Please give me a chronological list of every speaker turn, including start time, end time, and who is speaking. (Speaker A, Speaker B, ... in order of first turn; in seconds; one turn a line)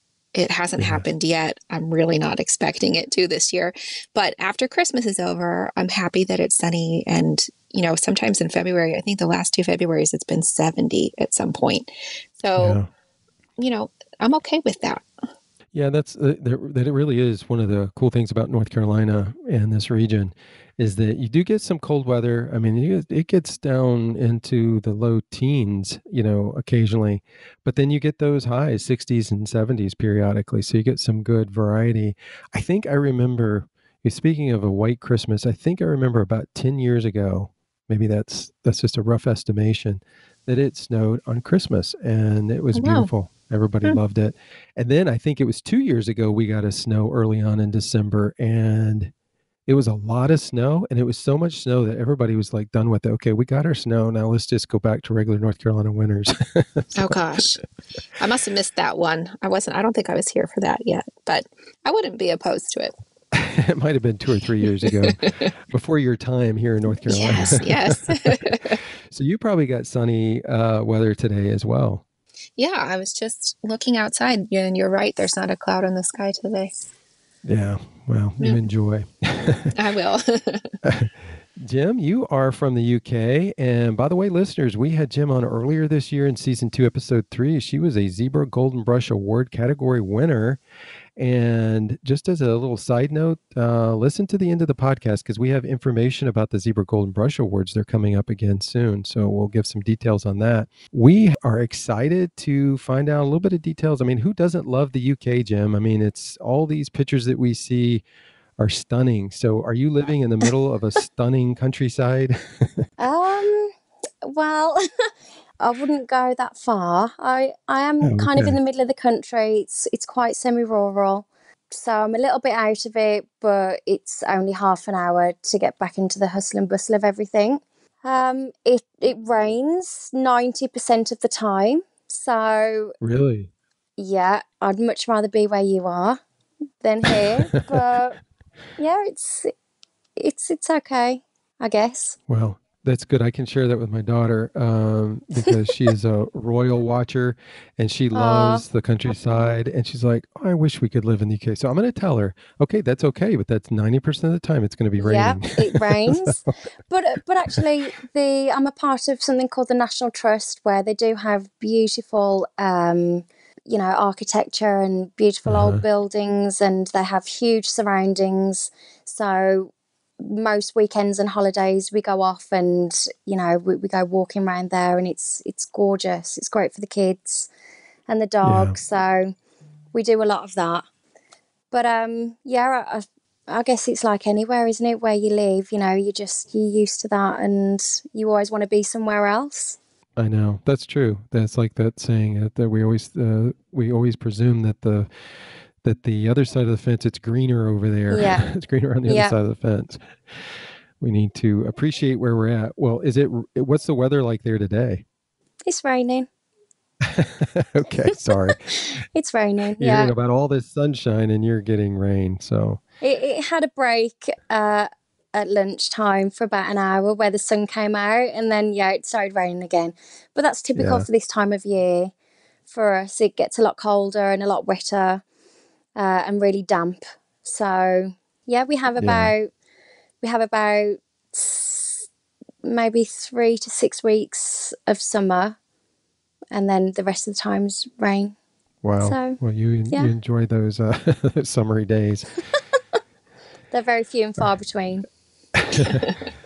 Speaker A: 0.3-12.8
Speaker B: 0.8-1.0
Speaker B: 12.6-12.9
Speaker A: 13.6-15.0
Speaker B: 15.7-49.1
Speaker A: 42.7-43.1
Speaker B: 49.6-57.1
Speaker A: 56.9-57.6
Speaker A: 58.2-62.9
Speaker B: 63.3-68.5
Speaker A: 64.8-65.5
Speaker A: 67.1-68.8
Speaker B: 69.1-72.0
Speaker A: 72.6-76.7
Speaker B: 77.4-79.7
Speaker A: 79.7-80.7
Speaker B: 80.8-90.6
Speaker B: 91.2-108.0
Speaker B: 108.6-112.7
Speaker C: 113.0-114.9
Speaker C: 115.6-132.9
Speaker B: 118.0-118.6
Speaker B: 133.0-133.5
Speaker C: 134.0-136.2
Speaker C: 136.8-138.2
Speaker C: 138.8-139.5
Speaker C: 140.2-142.2
Speaker B: 142.3-156.4
Speaker C: 148.1-148.6
Speaker C: 155.0-177.5
Speaker B: 165.5-165.8
Speaker C: 178.1-179.3
Speaker B: 178.4-178.7
Speaker C: 179.9-180.8
Speaker C: 181.7-189.8
Speaker B: 190.2-195.1
Speaker B: 195.8-200.0
Speaker C: 198.1-198.4
Speaker C: 199.1-199.3
Speaker B: 201.0-205.0
Speaker C: 205.7-206.3
Speaker B: 207.0-208.7
Speaker C: 208.9-210.1
Speaker B: 209.8-212.8
Speaker C: 213.0-222.1
Speaker B: 220.7-221.1
Speaker C: 222.7-225.2
Speaker C: 225.9-229.5
Speaker B: 229.0-229.3
Speaker C: 230.2-232.0
Speaker C: 232.6-235.6
Speaker C: 236.5-238.3
Speaker B: 238.8-242.4
Speaker C: 239.0-239.4
Speaker C: 243.7-245.1
Speaker B: 245.6-246.1